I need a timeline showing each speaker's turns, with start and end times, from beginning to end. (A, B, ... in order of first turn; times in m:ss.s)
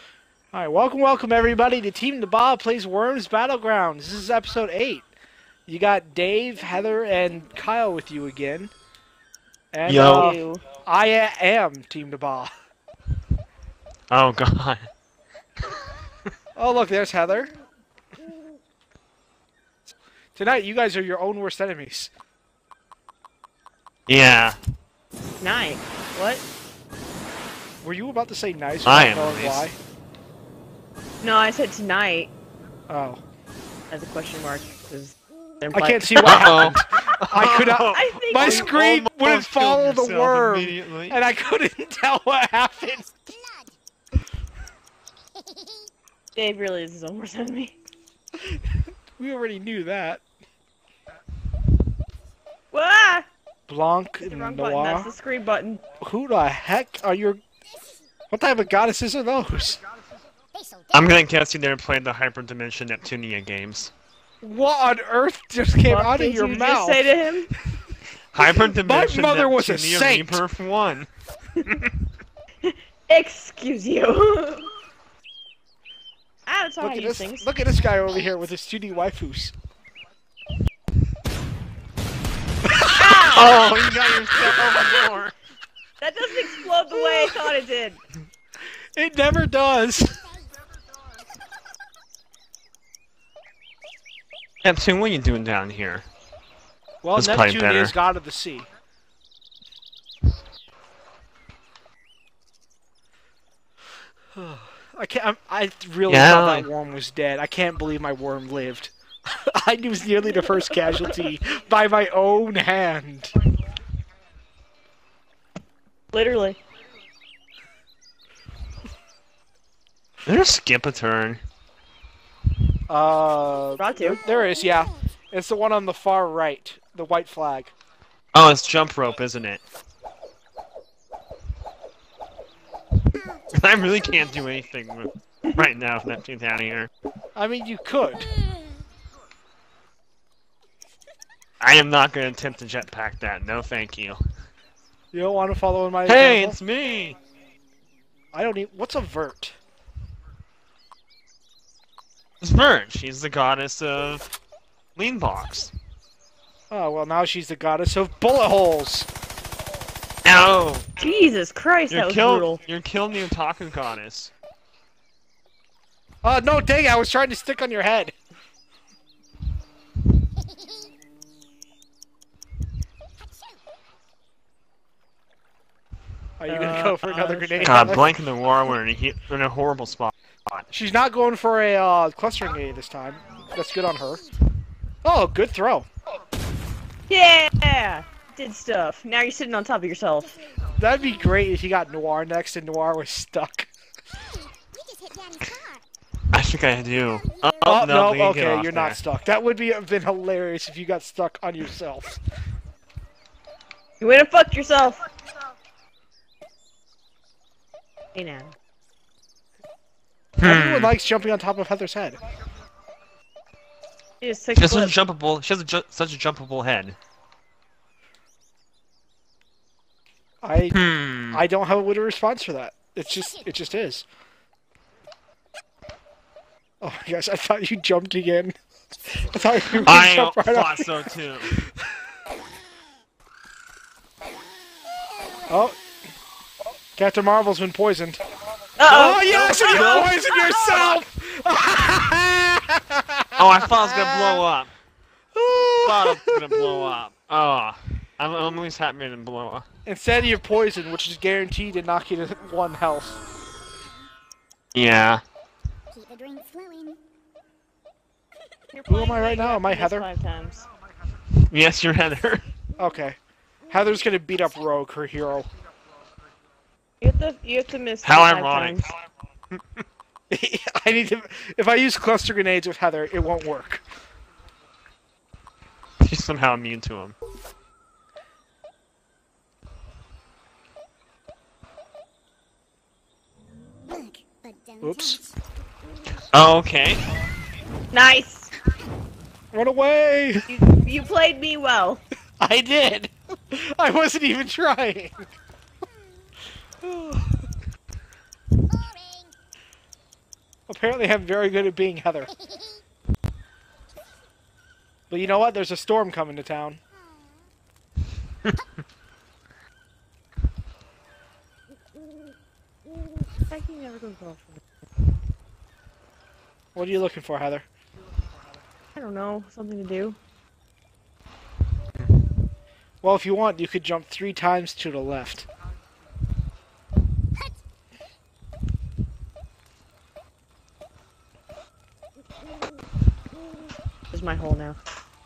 0:00.5-0:05.1 A
0:05.7-0:08.7 A
0:09.7-0:12.5 A
0:09.9-0:10.4 B
0:10.0-0:10.6 C
0:14.1-0:14.9 B
0:16.6-0:17.5 A
0:20.3-0:22.1 A
0:24.1-0:24.6 B
0:25.4-0:26.4 C
0:27.8-0:29.8 A
0:28.8-0:29.7 B
0:31.2-0:32.3 C
0:32.9-0:33.2 A
0:33.9-0:36.5 C
0:35.7-0:43.1 A
0:36.2-0:41.2 B
0:37.9-0:38.7 C
0:43.1-0:43.8 D
0:45.3-0:45.9 D
0:46.4-0:47.8 C
0:49.2-0:50.2 A
0:52.7-0:53.3 C
0:53.7-0:55.1 A
0:54.2-0:55.8 C
0:56.0-0:57.4 A
0:57.7-0:58.0 D
0:58.3-0:59.8 A
1:00.5-1:01.2 D
1:00.9-1:03.9 B
1:04.4-1:07.1 A
1:05.8-1:07.5 C
1:08.3-1:11.1 B
1:08.4-1:10.4 A
1:12.6-1:14.7 C
1:16.5-1:17.5 C
1:16.8-1:19.5 A
1:22.6-1:23.6 A
1:22.9-1:23.7 C
1:23.2-1:25.3 B
1:24.5-1:25.0 C
1:26.0-1:28.0 C
1:29.0-1:30.2 A
1:30.1-1:30.5 D
1:34.6-1:36.0 B
1:37.0-1:38.7 A
1:37.2-1:37.9 B
1:44.3-1:53.3 A
1:46.1-1:46.7 B
1:56.1-1:56.6 C
2:00.2-2:01.4 B
2:02.9-2:07.7 A
2:03.8-2:04.2 C
2:04.2-2:04.9 D
2:08.3-2:09.6 B
2:13.2-2:13.5 D
2:13.5-2:16.9 B
2:17.4-2:18.3 A
2:18.2-2:18.6 D
2:21.6-2:24.2 B
2:25.1-2:26.6 A
2:26.0-2:27.2 B
2:28.3-2:29.6 A
2:32.4-2:34.3 B
2:35.0-2:35.7 B
2:36.7-2:39.1 A
2:40.2-2:40.9 B
2:41.0-2:42.6 C
2:41.9-2:44.3 B
2:46.2-2:48.1 A
2:50.4-2:50.9 D
2:53.2-2:53.6 D
2:56.4-2:58.2 A
2:56.5-2:58.1 C
2:57.6-3:00.6 B
3:00.7-3:04.2 A
3:05.0-3:05.9 A
3:07.1-3:10.4 C
3:10.4-3:11.1 D
3:10.8-3:13.7 A
3:14.2-3:15.8 D
3:16.3-3:19.0 B
3:17.2-3:17.6 D
3:17.6-3:22.2 A
3:24.0-3:25.0 C
3:28.1-3:28.5 C
3:30.4-3:30.9 B
3:30.4-3:32.2 A
3:34.2-3:34.9 C
3:34.6-3:37.0 B
3:40.4-3:40.8 A
3:40.7-3:41.4 B
3:41.3-3:44.0 A
3:46.8-3:48.5 A
3:49.1-3:51.9 A
3:49.8-3:51.5 B
3:55.5-3:55.8 A
3:57.0-3:58.2 A
3:58.8-4:00.8 C
3:58.8-4:04.4 A
4:03.4-4:04.7 B
4:05.3-4:06.8 A
4:05.8-4:09.6 B
4:09.8-4:13.2 A
4:14.7-4:15.2 B
4:15.9-4:17.0 D
4:18.7-4:20.6 C
4:18.9-4:20.1 A
4:21.5-4:22.4 B
4:22.8-4:23.2 A
4:23.7-4:25.5 A
4:27.0-4:28.9 C
4:28.0-4:28.8 B
4:30.3-4:33.8 A
4:36.0-4:37.1 B
4:43.9-4:45.4 D
4:44.8-4:45.2 A
4:46.3-4:47.0 B
4:47.9-4:48.5 C
4:49.5-4:50.5 A
4:50.5-4:52.0 C
4:52.4-4:55.2 A
4:56.8-4:57.4 A
4:58.6-4:59.3 D
5:00.7-5:02.3 A
5:02.3-5:02.8 D
5:05.1-5:06.8 A
5:07.0-5:07.3 D
5:13.5-5:14.6 C
5:16.7-5:17.6 A
5:18.9-5:20.2 C
5:23.0-5:25.4 A
5:34.1-5:34.8 C